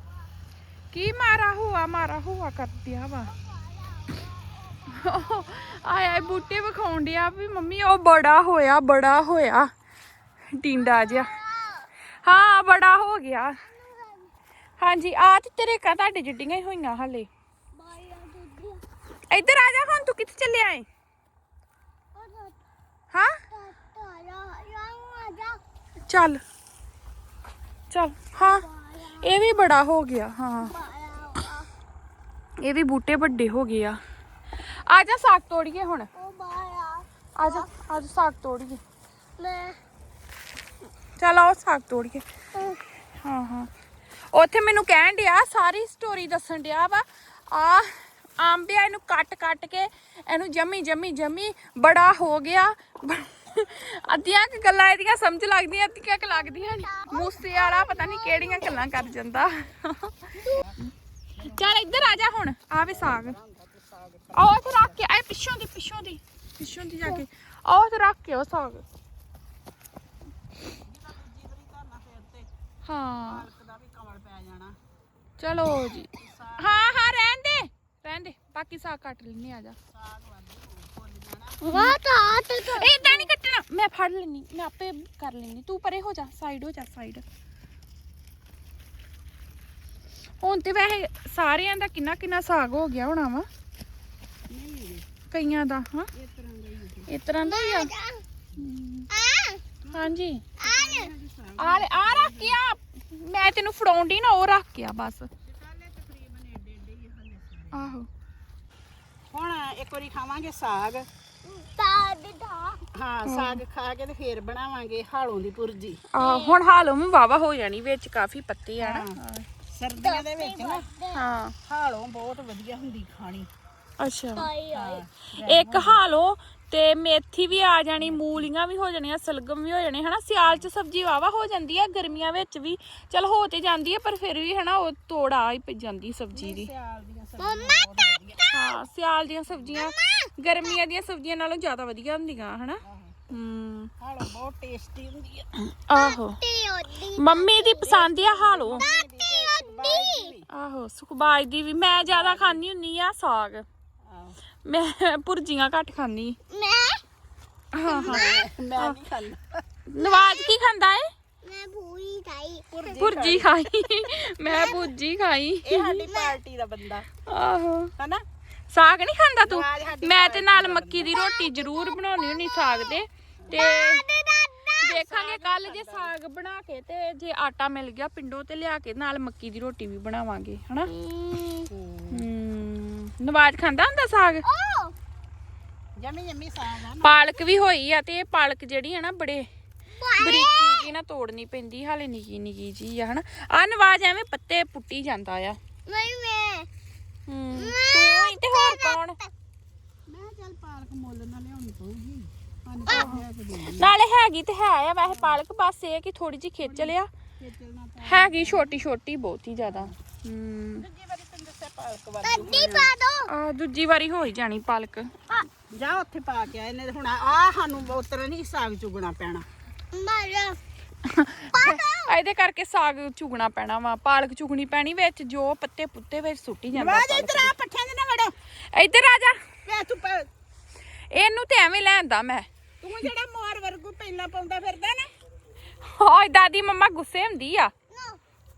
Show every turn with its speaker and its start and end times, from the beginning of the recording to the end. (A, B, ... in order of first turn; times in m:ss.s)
0:00.9-0:03.3 A
0:03.3-0:06.7 B
0:04.9-0:09.7 A
0:10.6-0:11.3 A
0:10.8-0:11.9 B
0:12.2-0:13.6 A
0:13.6-0:14.3 B
0:14.8-0:17.3 A
0:17.7-0:18.8 B
0:19.3-0:20.8 A
0:22.1-0:22.6 B
0:23.1-0:23.4 A
0:23.5-0:25.6 B
0:26.0-0:26.4 A
0:27.9-0:28.6 A
0:28.4-0:29.5 B
0:29.2-0:30.7 A
0:30.6-0:31.7 B
0:32.6-0:34.0 A
0:34.6-0:36.1 A
0:36.1-0:37.7 B
0:37.4-0:38.8 A
0:39.4-0:39.8 B
0:41.2-0:42.2 A
0:42.5-0:42.8 B
0:43.2-0:43.7 A
0:44.3-1:00.4 A
0:56.3-0:59.1 B
1:00.4-1:00.7 B
1:01.4-1:05.0 C
1:01.4-1:03.4 A
1:04.3-1:08.8 A
1:10.8-1:12.5 C
1:12.8-1:13.5 A
1:13.2-1:14.7 C
1:15.4-1:19.8 A
1:16.1-1:17.0 C
1:19.9-1:21.7 C
1:21.6-1:23.3 B
1:21.7-1:22.0 A
1:22.7-1:27.2 A
1:30.4-1:33.5 A
1:34.5-1:35.0 C
1:35.3-1:36.1 A
1:36.1-1:37.1 C
1:37.1-1:37.9 A
1:37.4-1:38.2 B
1:38.6-1:39.1 A
1:39.1-1:39.6 B
1:39.8-1:42.6 C
1:39.9-1:40.5 A
1:40.6-1:41.1 B
1:41.6-1:45.3 A
1:45.4-1:47.9 C
1:47.7-1:48.1 A
1:49.3-1:51.1 C
1:51.4-1:52.8 B
1:52.9-1:56.0 C
1:53.2-1:53.6 A
1:56.1-1:59.5 A
1:56.2-1:56.6 B
1:58.8-2:00.9 C
2:00.0-2:01.2 B
2:01.1-2:01.5 A
2:01.6-2:03.5 C
2:04.0-2:04.5 A
2:04.4-2:05.0 B
2:04.7-2:06.0 C
2:05.4-2:16.7 A
2:08.0-2:08.5 C
2:16.3-2:18.4 C
2:17.4-2:18.7 B
2:18.5-2:23.9 A
2:19.5-2:19.8 C
2:19.7-2:20.3 B
2:22.8-2:23.2 C
2:24.0-2:25.5 C
2:25.7-2:26.4 A
2:25.9-2:27.9 B
2:27.1-2:28.9 A
2:27.8-2:30.5 C
2:28.7-2:30.3 B
2:30.5-2:33.6 A
2:31.9-2:32.6 C
2:34.0-2:34.4 C
2:34.6-2:36.4 A
2:36.5-2:37.0 B
2:37.7-2:39.0 A
2:37.9-2:38.4 B
2:37.9-2:39.6 C
2:39.9-2:41.1 A
2:40.0-2:40.5 B
2:41.4-2:42.7 B
2:42.7-2:43.6 C
2:42.8-2:46.0 A
2:44.4-2:44.9 B
2:45.6-2:47.1 C
2:46.1-2:46.3 B
2:47.2-2:47.9 A
2:48.0-2:48.2 C
2:48.7-2:54.0 A
2:49.4-2:51.1 C
2:51.1-2:55.0 B
2:54.8-3:00.9 A
2:55.0-2:56.1 C
3:00.9-3:01.7 B
3:01.7-3:02.2 C
3:02.1-3:04.4 A
3:04.4-3:04.9 B
3:06.0-3:07.3 C
3:07.0-3:09.5 A
3:09.9-3:10.9 B
3:10.1-3:15.6 A
3:15.9-3:16.7 B
3:17.3-3:19.2 A
3:17.5-3:19.3 B
3:20.1-3:23.9 C
3:22.9-3:27.1 A
3:25.0-3:25.4 C
3:26.6-3:28.8 C
3:28.0-3:30.9 A
3:29.6-3:29.9 C
3:30.8-3:32.9 C
3:32.2-3:33.3 B
3:33.2-3:35.1 A
3:35.7-3:39.4 C
3:39.9-3:40.6 B
3:41.0-3:47.5 A
3:41.5-3:42.1 B
3:46.7-3:48.3 C
3:48.7-3:49.4 A
3:49.6-3:50.3 C
3:51.1-3:52.5 A
3:52.8-3:55.1 C
3:55.8-3:57.7 A
3:57.9-3:58.2 B